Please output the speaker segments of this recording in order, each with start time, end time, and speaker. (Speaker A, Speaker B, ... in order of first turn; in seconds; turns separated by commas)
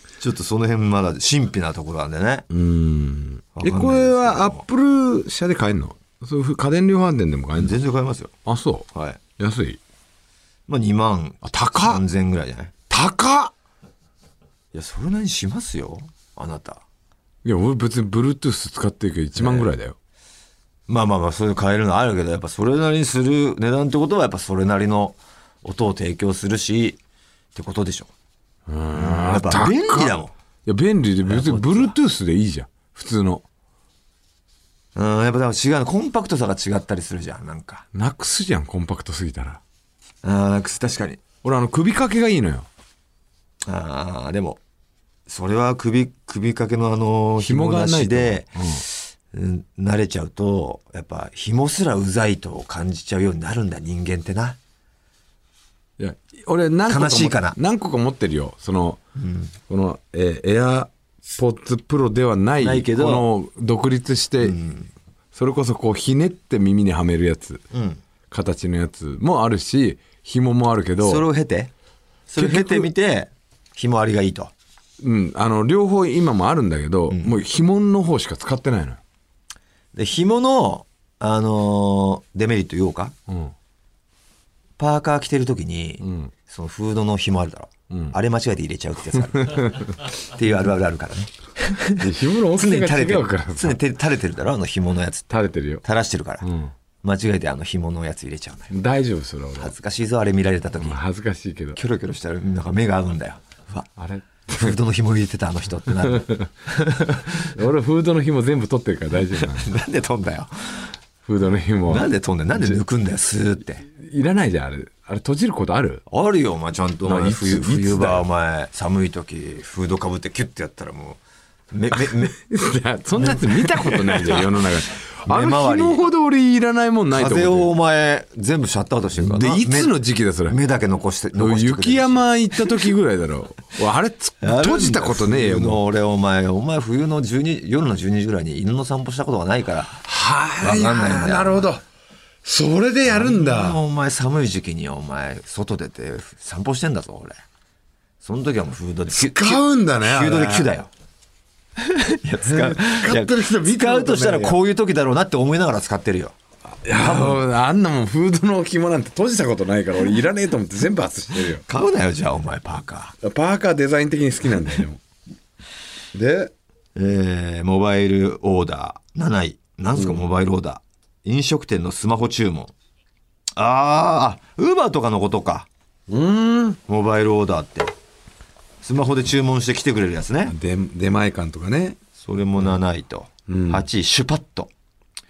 Speaker A: 0.2-2.5, Speaker B: 2.5-7.8, Speaker A: 3.6-4.6, Speaker A: 7.6-8.3, Speaker B: 8.4-9.8, Speaker A: 8.9-9.2, Speaker A: 10.7-12.7, Speaker B: 11.4-12.0, Speaker B: 12.9-13.5, Speaker A: 14.7-16.8, Speaker B: 17.4-20.0, Speaker A: 19.4-19.7, Speaker A: 20.9-27.0, Speaker A: 27.6-28.1, Speaker B: 28.7-33.4, Speaker A: 28.9-30.3, Speaker A: 31.3-31.9, Speaker A: 35.0-37.9, Speaker B: 37.9-39.6, Speaker A: 40.2-41.2, Speaker B: 41.4-42.7, Speaker A: 43.6-44.6, Speaker A: 45.3-54.6, Speaker B: 47.4-48.8, Speaker B: 56.0-59.0, Speaker A: 56.9-57.6, Speaker A: 59.2-59.5, Speaker B: 59.7-64.6, Speaker A: 62.6-63.3, Speaker A: 64.4-64.9, Speaker B: 65.3-67.6, Speaker A: 67.7-68.0, Speaker B: 68.3-71.3, Speaker A: 71.0-71.7, Speaker A: 72.3-74.5, Speaker B: 72.4-72.9, Speaker B: 75.0-79.0, Speaker A: 77.1-77.4, Speaker A: 79.9-83.2, Speaker B: 83.3-83.5, Speaker A: 84.8-95.3, Speaker B: 86.0-86.3, Speaker B: 87.9-88.2, Speaker B: 89.5-89.8, Speaker B: 92.0-93.8, Speaker B: 95.3-95.8, Speaker A: 95.8-96.5, Speaker B: 96.4-96.7, Speaker A: 97.0-98.7, Speaker B: 98.7-99.7, Speaker A: 99.6-101.0, Speaker B: 100.8-101.8, Speaker A: 101.8-103.9, Speaker B: 104.0-104.7, Speaker A: 104.5-107.5, Speaker B: 106.0-106.5, Speaker B: 107.4-109.7, Speaker A: 109.4-110.9, Speaker B: 111.2-112.8, Speaker A: 111.9-113.9, Speaker B: 113.9-116.0, Speaker A: 116.1-121.2, Speaker B: 117.0-118.3, Speaker A: 121.7-122.4, Speaker B: 121.9-127.7, Speaker A: 123.2-124.6, Speaker A: 125.2-126.0, Speaker A: 127.1-132.2, Speaker B: 129.2-130.6, Speaker B: 131.4-135.8, Speaker A: 134.4-140.0, Speaker B: 139.9-141.8, Speaker A: 140.6-141.7, Speaker B: 142.4-143.8, Speaker A: 143.1-147.4, Speaker A: 148.2-150.9, Speaker B: 149.1-150.7, Speaker A: 151.8-156.3, Speaker B: 152.4-154.6, Speaker B: 156.7-161.6, Speaker A: 156.9-157.4, Speaker A: 161.6-163.2, Speaker B: 163.2-165.0, Speaker B: 166.1-166.5, Speaker A: 167.0-172.7, Speaker B: 170.0-170.2, Speaker A: 173.6-175.7, Speaker B: 176.1-176.8, Speaker A: 176.9-177.9, Speaker A: 178.8-180.6, Speaker B: 180.5-182.0, Speaker A: 182.2-184.7, Speaker B: 183.5-183.9